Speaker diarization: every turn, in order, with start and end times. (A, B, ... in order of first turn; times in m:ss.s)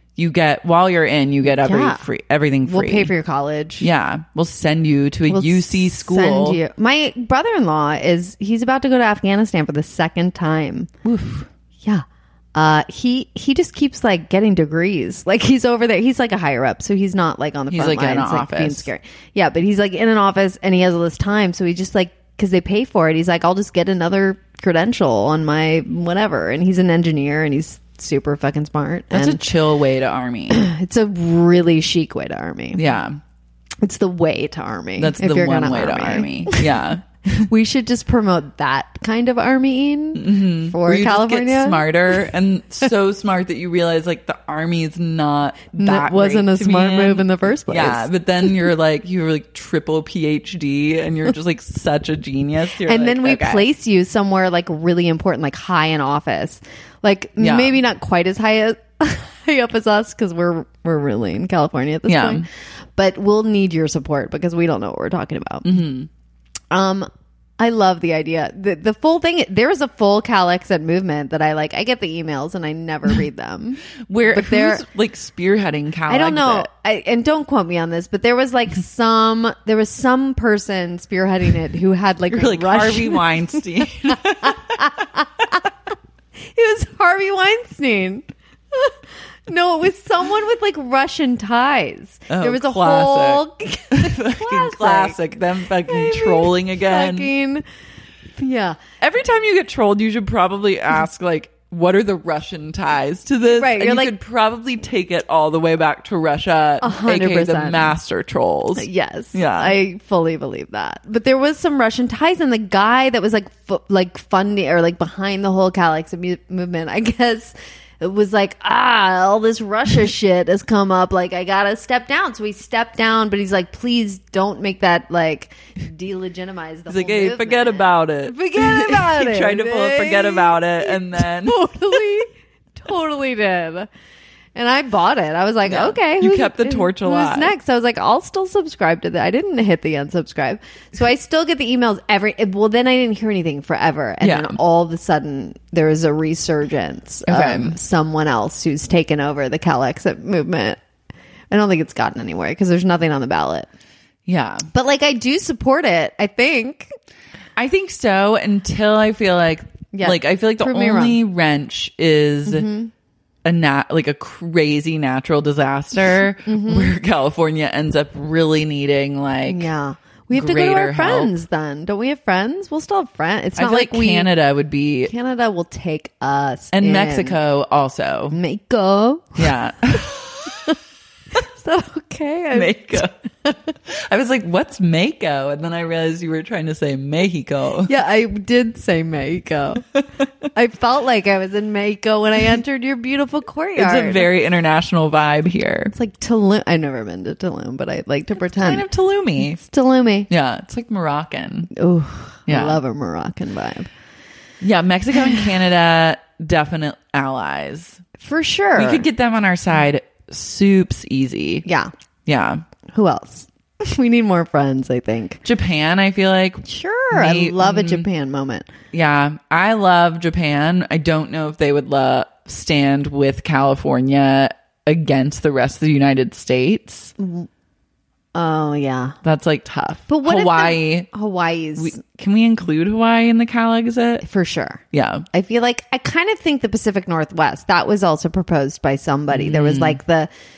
0:00.2-0:03.1 A
0:01.5-0:02.0 B
0:02.6-0:03.9 B
0:03.8-0:06.6 A
0:05.3-0:10.9 B
0:11.0-0:11.5 A
0:11.8-0:29.5 B
0:17.7-0:18.9 A
0:29.1-0:30.7 A
0:30.5-0:32.8 B
0:32.7-0:33.2 A
0:33.8-0:36.7 B
0:35.0-0:37.0 A
0:37.3-0:41.8 B
0:40.2-0:53.6 A
0:45.8-0:48.1 B
0:52.8-1:05.7 B
0:57.4-0:57.8 A
1:02.1-1:02.4 A
1:05.6-1:06.1 A
1:06.7-1:14.8 B
1:14.0-1:16.7 A
1:16.1-1:23.6 B
1:22.3-1:25.0 A
1:24.4-1:25.6 B
1:26.4-1:35.2 B
1:32.3-1:37.3 A
1:35.8-1:37.6 B
1:38.4-1:38.8 B
1:39.0-1:49.7 A
1:43.5-1:44.1 B
1:46.8-1:47.9 B
1:48.8-2:13.9 B
2:06.9-2:11.6 A
2:14.5-2:30.8 B
2:15.6-2:17.5 A
2:24.2-2:24.6 A
2:27.3-2:27.8 A
2:31.5-2:33.7 B
2:34.2-2:34.7 A
2:34.7-2:36.9 B
2:37.6-2:42.7 A
2:39.9-2:41.2 B
2:42.4-2:42.9 B
2:43.4-2:49.7 A
2:46.4-2:46.9 B
2:49.5-2:54.3 B
2:50.3-2:51.3 A
2:53.6-2:55.1 A
2:55.1-2:57.4 B
2:56.7-2:58.3 A
2:58.3-2:59.4 B
2:59.4-3:00.6 A
3:01.3-3:03.7 B
3:02.5-3:03.1 A
3:03.8-3:07.9 A
3:07.8-3:09.9 B
3:10.5-3:14.3 B
3:13.8-3:15.9 A
3:15.9-3:18.8 B
3:18.5-3:19.6 A
3:19.5-3:20.3 B
3:20.3-3:21.7 A
3:21.7-3:23.9 B
3:22.5-3:22.8 A
3:24.6-3:28.0 A
3:28.2-3:29.1 B
3:28.8-3:31.6 A
3:31.6-3:31.9 B
3:32.2-3:32.6 A
3:32.9-3:35.4 B
3:35.4-3:38.1 A
3:36.6-3:38.7 B
3:38.9-3:47.1 A
3:47.2-3:47.5 B
3:48.3-3:49.2 B
3:49.2-3:51.1 A
3:50.1-3:52.0 B
3:51.8-3:54.2 A
3:54.2-4:00.3 B
3:54.9-3:55.2 A
3:59.3-4:00.0 A